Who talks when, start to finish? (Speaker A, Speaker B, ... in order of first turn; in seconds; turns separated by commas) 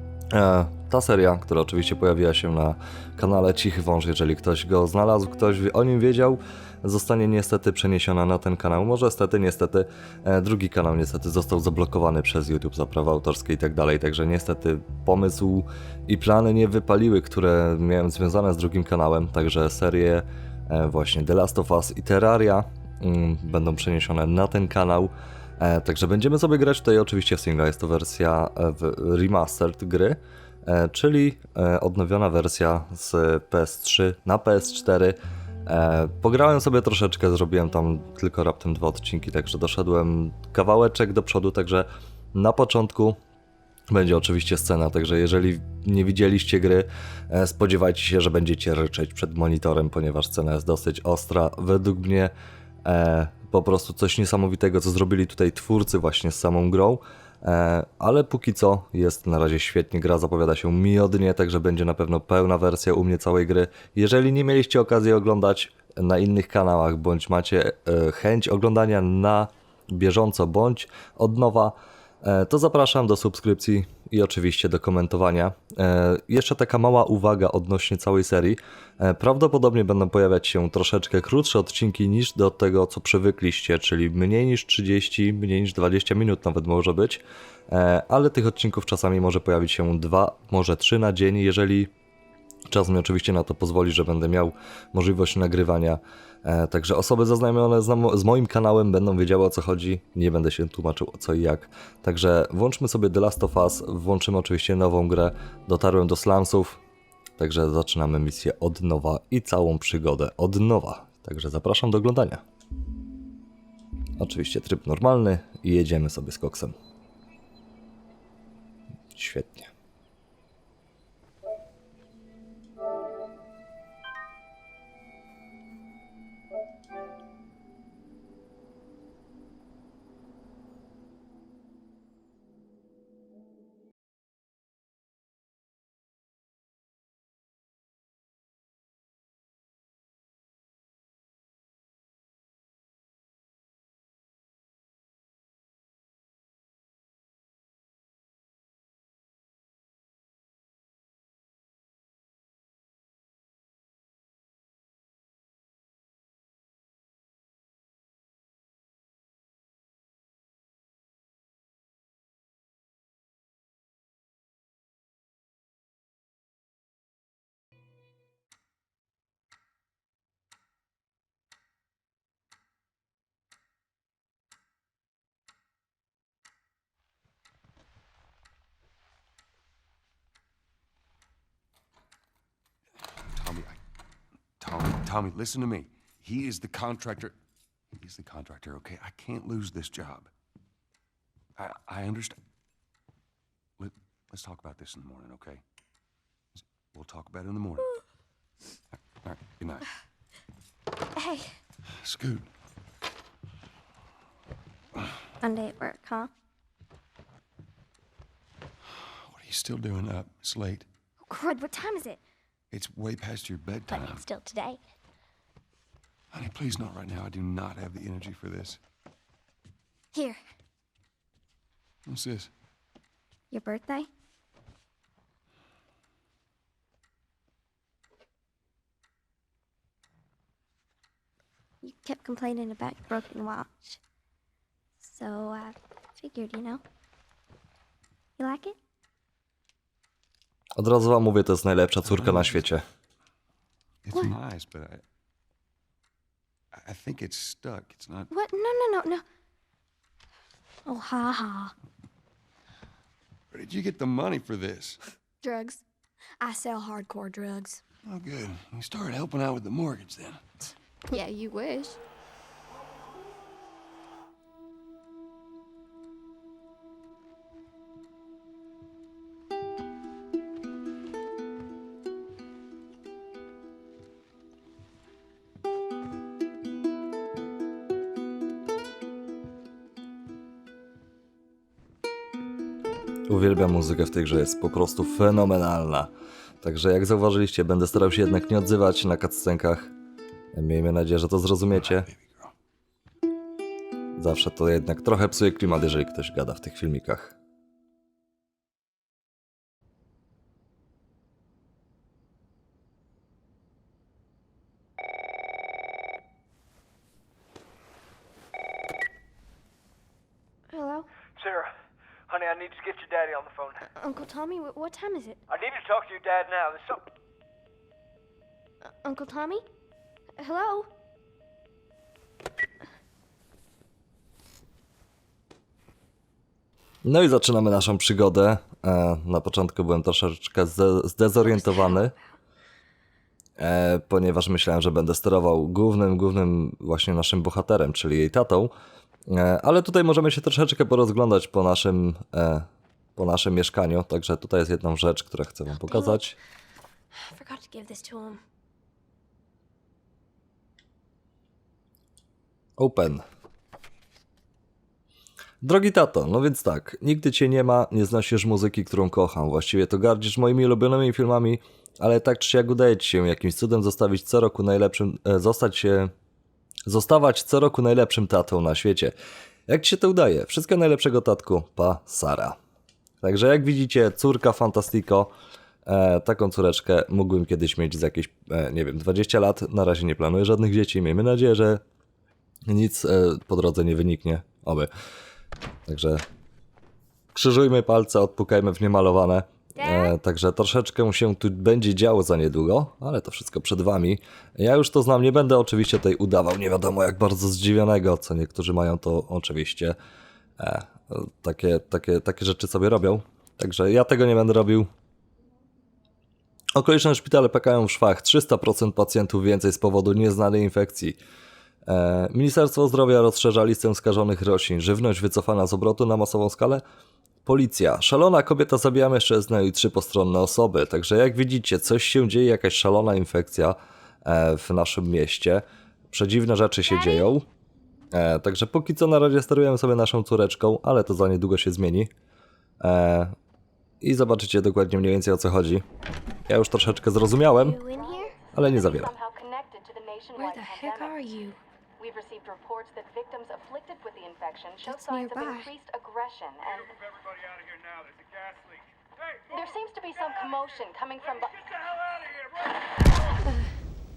Speaker A: 0.3-43.2, Speaker A: 43.9-52.3, Speaker A: 52.8-91.9, Speaker A: 92.7-106.8, Speaker A: 107.4-112.4, Speaker A: 114.2-116.7, Speaker A: 119.1-119.7, Speaker B: 183.3-183.8, Speaker B: 184.6-187.4, Speaker B: 187.9-190.3, Speaker B: 191.6-192.4, Speaker B: 193.8-195.6, Speaker B: 196.6-197.8, Speaker B: 198.9-199.8, Speaker C: 201.2-201.5, Speaker B: 202.0-202.5, Speaker C: 205.4-206.3, Speaker B: 209.2-210.9, Speaker C: 211.3-212.2, Speaker B: 212.7-214.3, Speaker C: 213.9-214.8, Speaker B: 216.3-218.8, Speaker C: 220.1-220.4, Speaker B: 222.1-222.5, Speaker C: 223.5-224.1, Speaker C: 231.8-234.0, Speaker C: 235.0-236.8, Speaker C: 238.4-238.8, Speaker A: 240.8-242.8, Speaker B: 242.0-242.6, Speaker B: 244.0-245.0, Speaker B: 246.7-248.3, Speaker C: 248.3-249.2, Speaker C: 250.8-251.7, Speaker B: 253.5-255.0, Speaker C: 255.4-255.8, Speaker C: 256.4-257.8, Speaker B: 258.0-260.4, Speaker C: 261.1-262.0, Speaker A: 283.3-286.1, Speaker A: 286.6-289.9, Speaker A: 290.5-292.1, Speaker B: 291.7-292.5, Speaker A: 294.2-297.3, Speaker C: 310.7-311.1, Speaker D: 312.3-313.7, Speaker C: 313.8-315.4, Speaker D: 315.5-316.9, Speaker C: 318.8-319.6, Speaker C: 320.4-320.9, Speaker A: 327.0-332.1, Speaker C: 331.4-332.1, Speaker A: 333.6-338.7, Speaker A: 339.3-346.4, Speaker C: 345.7-346.2, Speaker C: 347.1-348.4, Speaker A: 352.8-353.2, Speaker A: 355.6-366.1, Speaker A: 366.9-369.1, Speaker A: 369.7-372.6, Speaker A: 373.2-375.3, Speaker A: 375.9-381.8, Speaker A: 382.7-384.9, Speaker A: 385.9-386.2, Speaker A: 387.3-400.0, Speaker C: 389.8-390.1, Speaker A: 400.6-404.9, Speaker A: 406.7-411.2, Speaker A: 411.9-416.8, Speaker A: 417.4-427.4, Speaker A: 428.1-432.1, Speaker A: 432.8-433.3, Speaker A: 434.0-435.8, Speaker A: 436.5-437.8, Speaker C: 437.4-438.4, Speaker A: 438.5-439.1, Speaker E: 438.7-441.1, Speaker C: 440.3-441.6, Speaker E: 442.0-446.8, Speaker C: 444.8-445.8, Speaker E: 449.5-451.7